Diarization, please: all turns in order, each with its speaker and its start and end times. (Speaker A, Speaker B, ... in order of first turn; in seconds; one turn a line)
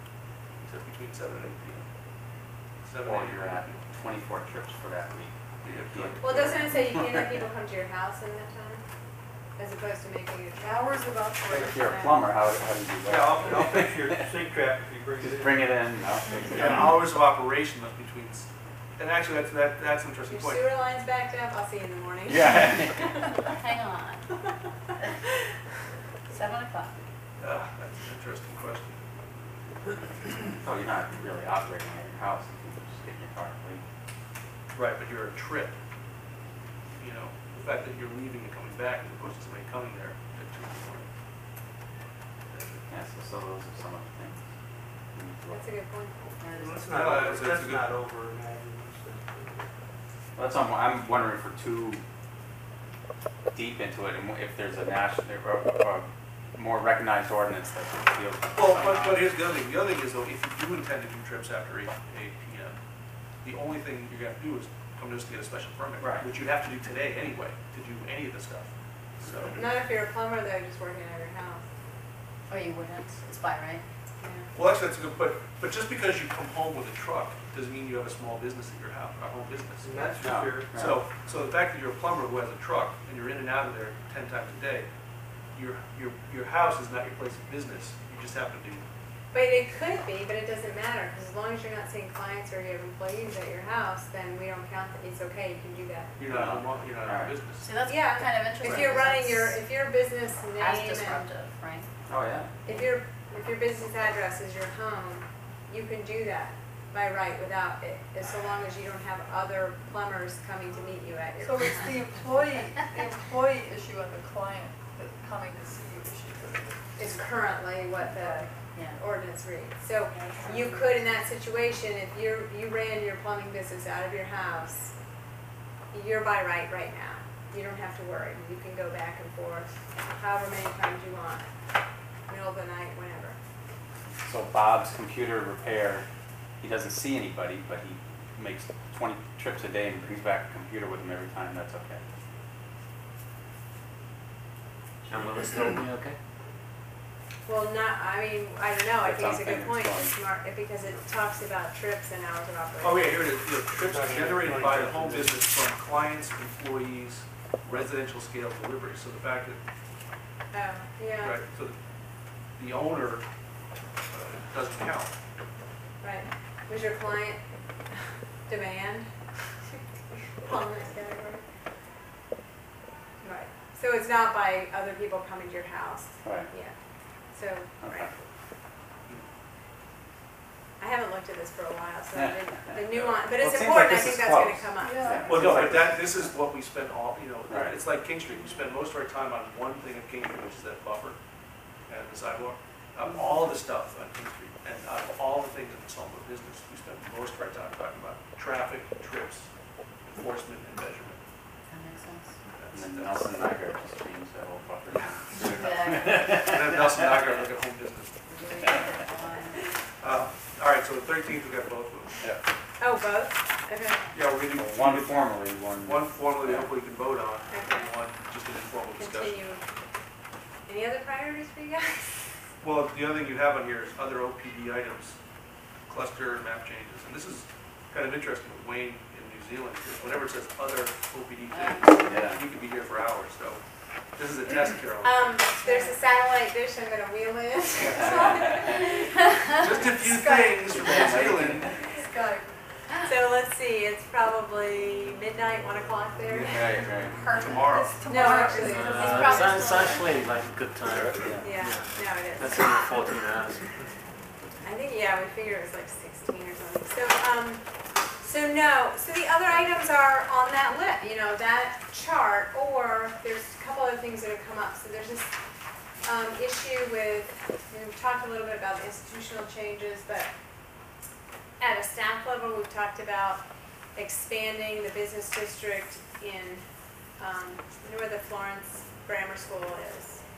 Speaker A: 0.6-1.9
Speaker A: 2.8-3.8
Speaker B: 3.0-7.4
Speaker A: 5.6-6.5
Speaker C: 6.2-8.8
Speaker C: 9.6-12.2
Speaker D: 10.6-11.8
Speaker B: 11.5-14.3
Speaker E: 13.1-15.8
Speaker B: 15.2-17.0
Speaker A: 16.5-20.7
Speaker C: 20.3-23.5
Speaker B: 22.3-23.1
Speaker F: 23.4-24.2
Speaker F: 26.3-26.9
Speaker A: 27.4-29.0
Speaker B: 30.6-33.8
Speaker A: 34.7-35.8
Speaker A: 37.0-41.1
Speaker A: 42.5-42.8
Speaker B: 42.9-44.4
Speaker B: 45.1-45.7
Speaker C: 45.5-46.2
Speaker F: 46.4-46.9
Speaker E: 46.6-49.7
Speaker A: 46.6-47.9
Speaker B: 50.4-52.0
Speaker B: 53.5-59.3
Speaker A: 58.5-62.8
Speaker A: 63.4-69.6
Speaker B: 66.0-66.3
Speaker C: 69.5-71.6
Speaker F: 72.5-73.8
Speaker C: 74.2-74.5
Speaker A: 74.5-80.0
Speaker E: 79.8-80.7
Speaker B: 80.2-81.0
Speaker A: 80.7-84.9
Speaker A: 85.5-88.8
Speaker C: 89.3-96.2
Speaker A: 96.2-97.7
Speaker B: 96.3-97.3
Speaker F: 97.6-99.6
Speaker C: 97.8-101.2
Speaker B: 98.6-99.0
Speaker F: 100.5-101.9
Speaker B: 102.1-102.5
Speaker C: 102.7-112.0
Speaker D: 111.4-117.0
Speaker C: 117.0-124.9
Speaker D: 118.1-118.5
Speaker F: 118.7-119.0
Speaker D: 120.2-121.1
Speaker C: 125.9-131.5
Speaker C: 132.3-133.4
Speaker B: 134.2-136.1
Speaker B: 136.6-142.0
Speaker G: 145.1-146.2
Speaker C: 147.5-153.1
Speaker B: 149.0-150.1
Speaker A: 152.8-159.6
Speaker E: 153.7-155.4
Speaker C: 160.5-161.4
Speaker A: 161.2-161.8
Speaker A: 162.6-163.2
Speaker A: 164.1-165.1
Speaker C: 166.0-167.4
Speaker C: 168.5-169.1
Speaker C: 170.4-171.4
Speaker C: 173.2-176.8
Speaker B: 176.2-176.5
Speaker C: 177.3-178.1
Speaker B: 177.8-178.2
Speaker C: 180.8-185.3
Speaker B: 182.2-186.3
Speaker D: 184.8-185.5
Speaker A: 185.3-191.2
Speaker B: 187.5-187.7
Speaker A: 191.9-199.5
Speaker A: 200.1-201.2
Speaker F: 201.7-202.3
Speaker A: 202.5-203.2
Speaker B: 202.7-206.8
Speaker F: 205.3-206.5
Speaker A: 206.1-208.2
Speaker F: 208.3-209.8
Speaker A: 210.0-212.2
Speaker C: 212.8-214.0
Speaker A: 214.1-215.2
Speaker B: 214.5-216.7
Speaker A: 215.8-219.4
Speaker C: 217.5-217.9
Speaker C: 219.0-219.7
Speaker C: 220.7-222.2
Speaker A: 222.6-225.2
Speaker A: 225.9-233.6
Speaker F: 231.5-232.2
Speaker B: 232.1-232.4
Speaker A: 234.2-235.4
Speaker C: 235.0-240.6
Speaker D: 235.7-235.9
Speaker A: 237.8-238.2
Speaker B: 237.8-238.8
Speaker A: 239.6-241.7
Speaker D: 240.2-242.6
Speaker B: 240.7-241.8
Speaker C: 243.1-246.7
Speaker B: 246.3-247.2
Speaker F: 246.7-247.8
Speaker A: 247.4-248.0
Speaker D: 247.8-249.3
Speaker C: 248.1-250.0
Speaker G: 248.7-253.7
Speaker F: 248.9-250.1
Speaker B: 250.9-251.6
Speaker C: 251.4-253.2
Speaker C: 254.6-257.6
Speaker C: 258.2-265.3
Speaker C: 266.0-270.3
Speaker C: 271.6-273.4
Speaker C: 273.9-276.6
Speaker C: 277.2-280.2